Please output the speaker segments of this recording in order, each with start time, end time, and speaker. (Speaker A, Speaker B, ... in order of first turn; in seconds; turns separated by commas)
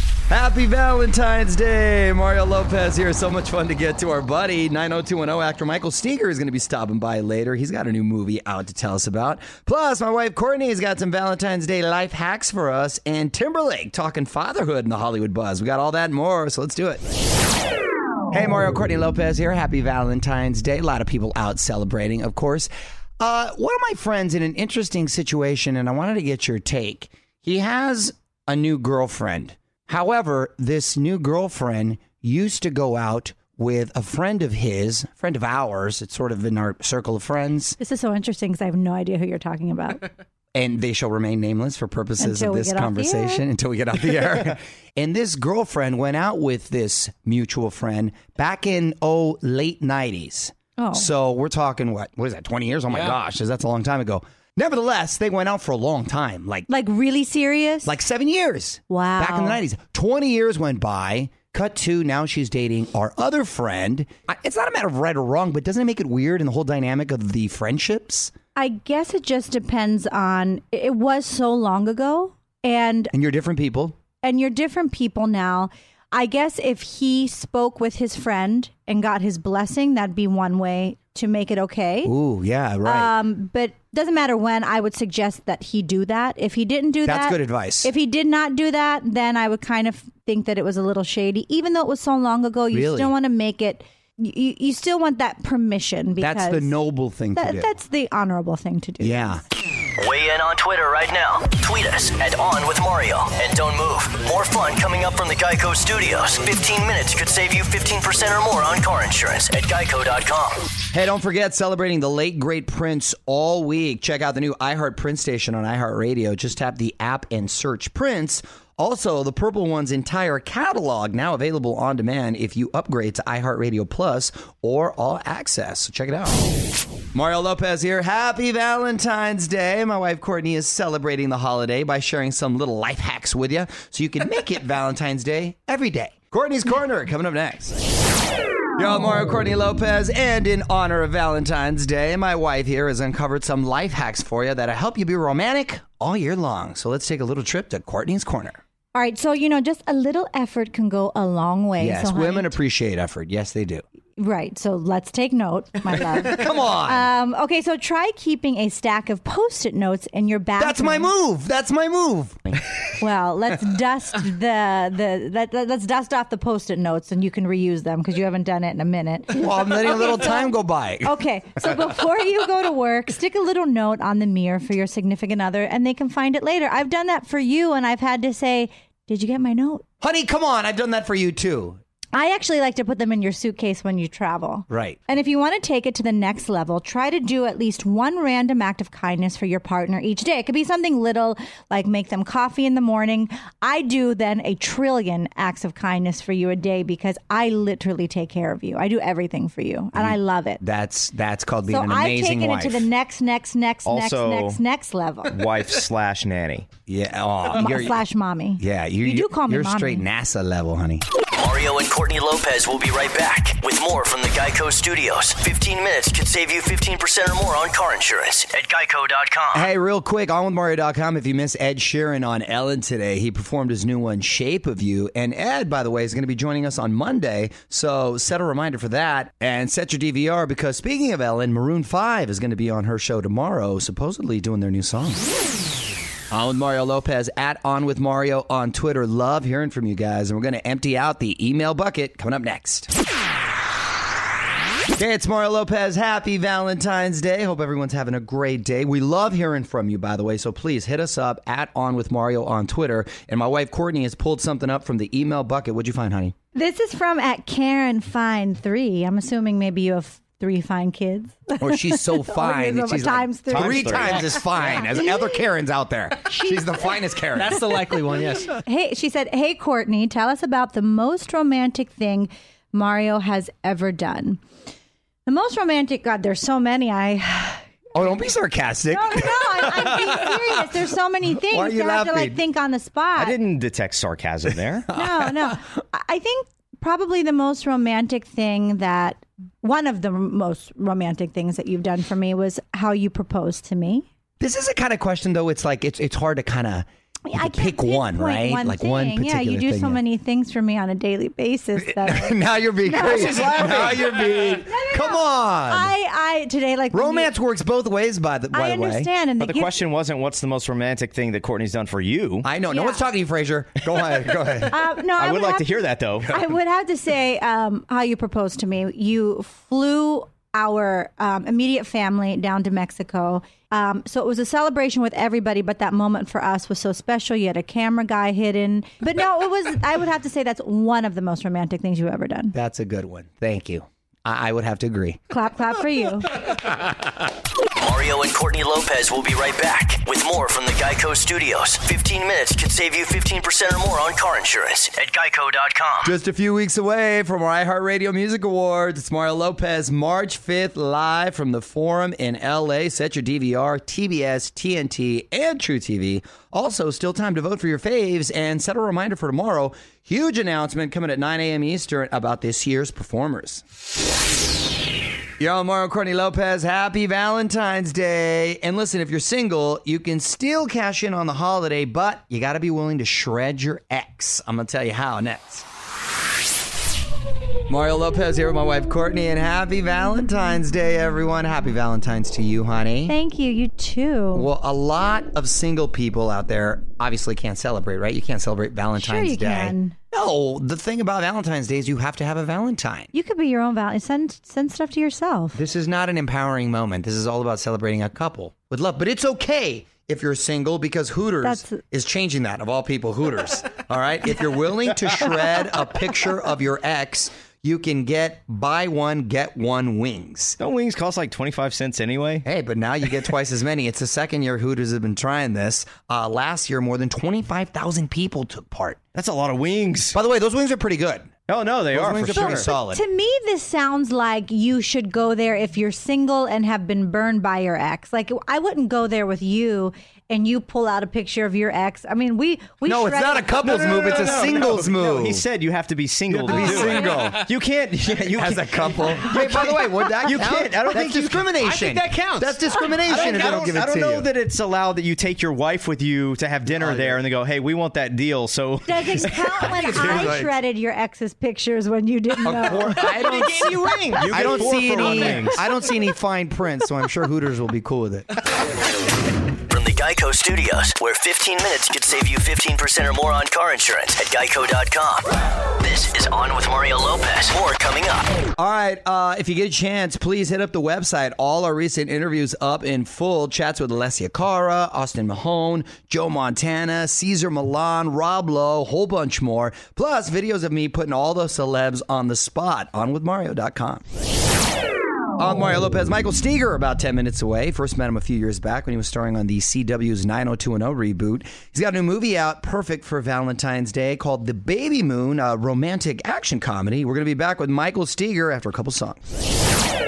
Speaker A: 0.3-17.0, Speaker A: 18.3-37.8, Speaker B: 37.8-40.1, Speaker A: 40.5-56.7, Speaker B: 42.2-43.4, Speaker B: 50.8-51.1, Speaker B: 56.7-57.9, Speaker A: 57.8-68.3, Speaker B: 58.9-59.6, Speaker B: 68.5-73.1, Speaker A: 73.1-74.0, Speaker B: 74.2-82.1, Speaker A: 82.0-83.1, Speaker B: 82.8-96.7, Speaker A: 87.0-87.9, Speaker A: 92.7-93.1, Speaker A: 96.2-97.7, Speaker B: 97.3-99.3, Speaker A: 99.0-99.4, Speaker C: 100.0-110.7, Speaker A: 110.9-126.4, Speaker A: 127.1-137.8, Speaker A: 138.8-148.6, Speaker B: 148.9-152.5, Speaker A: 151.8-153.8, Speaker B: 154.2-161.1, Speaker A: 156.2-157.1, Speaker A: 160.6-162.6, Speaker B: 163.0-179.8, Speaker A: 169.3-171.8, Speaker A: 180.0-181.8, Speaker B: 182.1-200.6, Speaker A: 184.7-185.0, Speaker A: 199.9-202.9, Speaker B: 201.7-205.4, Speaker D: 203.8-204.6, Speaker D: 205.3-206.7, Speaker A: 206.9-208.0, Speaker B: 207.5-210.0, Speaker A: 208.6-211.0, Speaker C: 211.4-219.7, Speaker A: 219.5-235.2, Speaker A: 236.3-242.9, Speaker A: 244.9-256.3, Speaker B: 256.5-264.8, Speaker A: 261.6-267.8, Speaker D: 263.5-264.3, Speaker E: 267.3-268.6, Speaker B: 268.6-274.4, Speaker B: 275.2-277.6, Speaker A: 277.9-280.3, Speaker B: 278.9-283.4, Speaker A: 281.5-282.4, Speaker D: 283.1-284.9, Speaker A: 284.9-285.3, Speaker B: 284.9-294.1, Speaker A: 294.4-300.0, Speaker B: 297.3-307.3, Speaker A: 301.8-305.9, Speaker D: 303.0-304.7, Speaker A: 306.9-309.1, Speaker B: 308.5-309.9, Speaker D: 309.4-312.5, Speaker A: 312.4-314.8, Speaker B: 312.7-313.1, Speaker B: 314.7-332.5, Speaker D: 315.2-316.4, Speaker A: 332.5-335.2, Speaker B: 335.3-336.3, Speaker C: 337.8-346.1, Speaker A: 346.0-363.6, Speaker A: 365.4-375.6, Speaker A: 377.7-383.1, Speaker B: 383.1-384.5, Speaker A: 384.3-393.1, Speaker B: 388.9-389.9, Speaker B: 393.1-395.6, Speaker A: 395.5-410.6, Speaker B: 401.4-401.8, Speaker D: 410.6-412.4, Speaker A: 412.4-419.0, Speaker D: 419.1-420.2, Speaker A: 420.1-421.3, Speaker D: 421.5-422.7, Speaker A: 421.9-423.0, Speaker B: 422.3-434.5, Speaker A: 432.8-435.4, Speaker D: 433.6-450.4, Speaker A: 436.4-437.4, Speaker B: 436.5-437.2, Speaker A: 438.3-444.3, Speaker A: 446.8-447.2, Speaker B: 448.8-453.1, Speaker E: 449.6-450.5, Speaker A: 452.4-453.7, Speaker D: 452.7-455.6, Speaker E: 452.8-454.6, Speaker A: 454.2-458.3, Speaker C: 459.7-465.3, Speaker C: 465.8-468.3, Speaker A: 468.6-484.0, Speaker A: 485.4-499.2